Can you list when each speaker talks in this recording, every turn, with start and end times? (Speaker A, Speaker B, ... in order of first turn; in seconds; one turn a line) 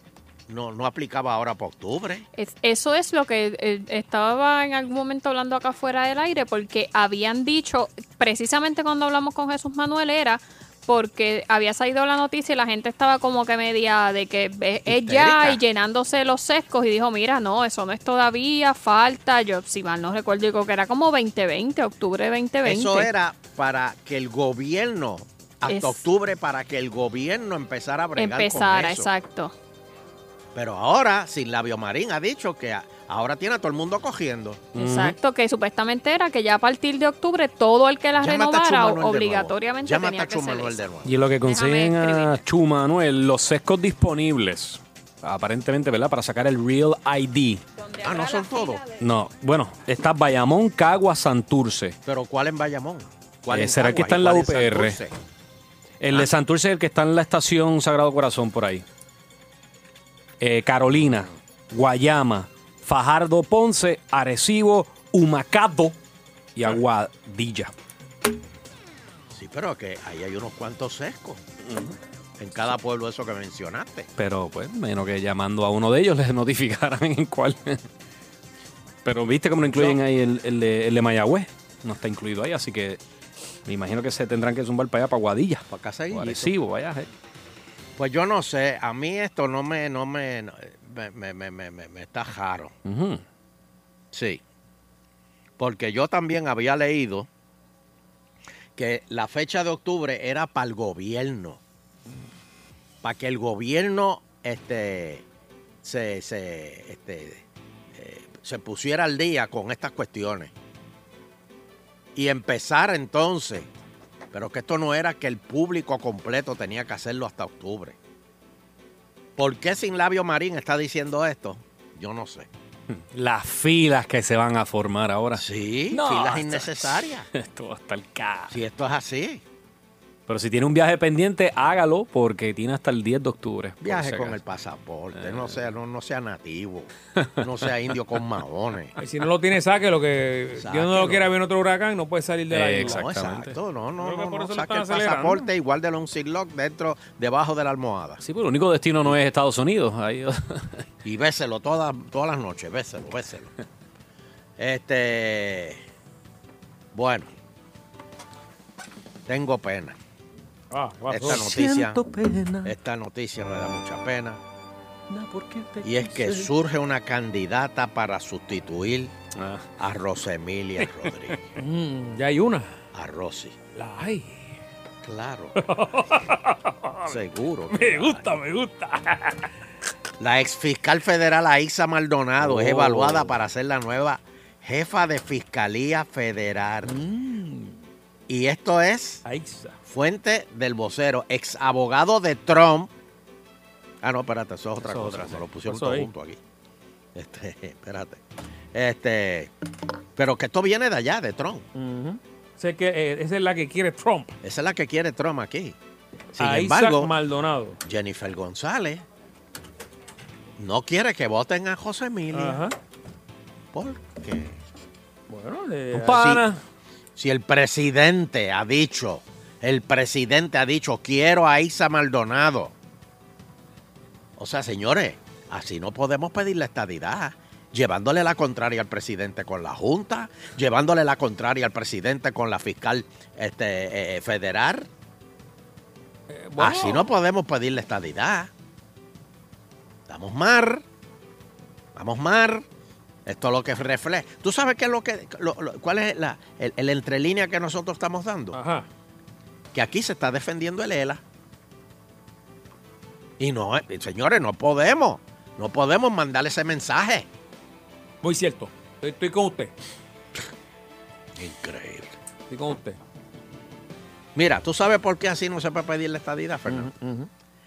Speaker A: 0.5-2.3
Speaker B: 2.4-23.1
Speaker A: 14.9-15.6
Speaker A: 22.6-29.1
Speaker B: 25.7-26.0
Speaker B: 28.2-29.6
Speaker A: 30.6-34.6
Speaker C: 34.7-35.2
Speaker B: 34.8-40.8
Speaker A: 38.2-41.1
Speaker C: 41.0-47.6
Speaker B: 41.4-42.4
Speaker B: 47.8-49.0
Speaker A: 48.0-48.8
Speaker C: 49.0-52.0
Speaker A: 52.0-55.1
Speaker C: 53.5-55.0
Speaker C: 56.0-58.9
Speaker C: 60.4-66.0
Speaker C: 66.6-67.7
Speaker A: 69.3-71.4
Speaker C: 71.6-72.0
Speaker A: 72.4-74.1
Speaker C: 74.2-77.8
Speaker C: 79.0-83.0
Speaker C: 83.7-87.1
Speaker A: 85.7-86.5
Speaker A: 88.0-92.8
Speaker C: 92.8-93.2
Speaker A: 94.1-94.4
Speaker A: 95.6-97.3
Speaker A: 98.8-101.6
Speaker A: 103.0-105.2
Speaker A: 105.8-110.5
Speaker A: 112.2-113.7
Speaker A: 114.3-118.0
Speaker A: 119.4-122.5
Speaker C: 122.9-128.6
Speaker A: 125.4-127.3
Speaker A: 128.5-129.4
Speaker C: 130.3-134.4
Speaker A: 133.8-138.9
Speaker C: 135.2-135.6
Speaker D: 139.0-143.1
Speaker A: 140.6-141.3
Speaker C: 142.5-143.6
Speaker A: 142.8-148.2
Speaker D: 144.0-145.5
Speaker C: 148.2-150.8
Speaker A: 151.0-153.5
Speaker A: 154.6-155.8
Speaker A: 156.9-157.3
Speaker A: 159.3-160.0
Speaker D: 160.7-161.5
Speaker A: 161.1-162.0
Speaker C: 161.2-162.7
Speaker A: 162.6-164.4
Speaker C: 165.1-166.5
Speaker A: 165.8-169.1
Speaker C: 169.4-169.7
Speaker A: 169.8-171.4
Speaker D: 171.6-172.7
Speaker A: 172.9-173.6
Speaker D: 173.8-174.6
Speaker A: 175.0-175.7
Speaker D: 175.6-177.2
Speaker A: 177.1-178.4
Speaker D: 177.7-179.5
Speaker A: 180.2-187.0
Speaker D: 182.4-183.4
Speaker D: 186.8-187.8
Speaker A: 188.3-189.2
Speaker D: 189.2-189.8
Speaker A: 189.9-192.9
Speaker A: 194.0-196.4
Speaker D: 194.9-196.1
Speaker A: 197.2-198.2
Speaker A: 198.7-199.5
Speaker A: 200.2-201.7
Speaker D: 201.8-204.3
Speaker A: 204.4-205.8
Speaker A: 206.3-207.1
Speaker D: 206.4-207.8
Speaker A: 207.8-209.0
Speaker A: 210.6-212.6
Speaker D: 212.3-212.8
Speaker A: 213.7-214.6
Speaker D: 215.3-216.4
Speaker C: 215.9-216.6
Speaker A: 216.1-216.4
Speaker A: 217.2-222.7
Speaker A: 224.4-234.9
Speaker D: 236.3-237.1
Speaker A: 236.6-238.5
Speaker A: 240.1-240.8
Speaker A: 241.9-242.7
Speaker A: 243.3-248.6
Speaker D: 248.5-248.9
Speaker A: 249.7-251.2
Speaker A: 253.4-257.3
Speaker D: 258.2-259.7
Speaker A: 261.4-262.1
Speaker D: 262.5-263.0
Speaker A: 264.4-266.9
Speaker D: 266.7-267.3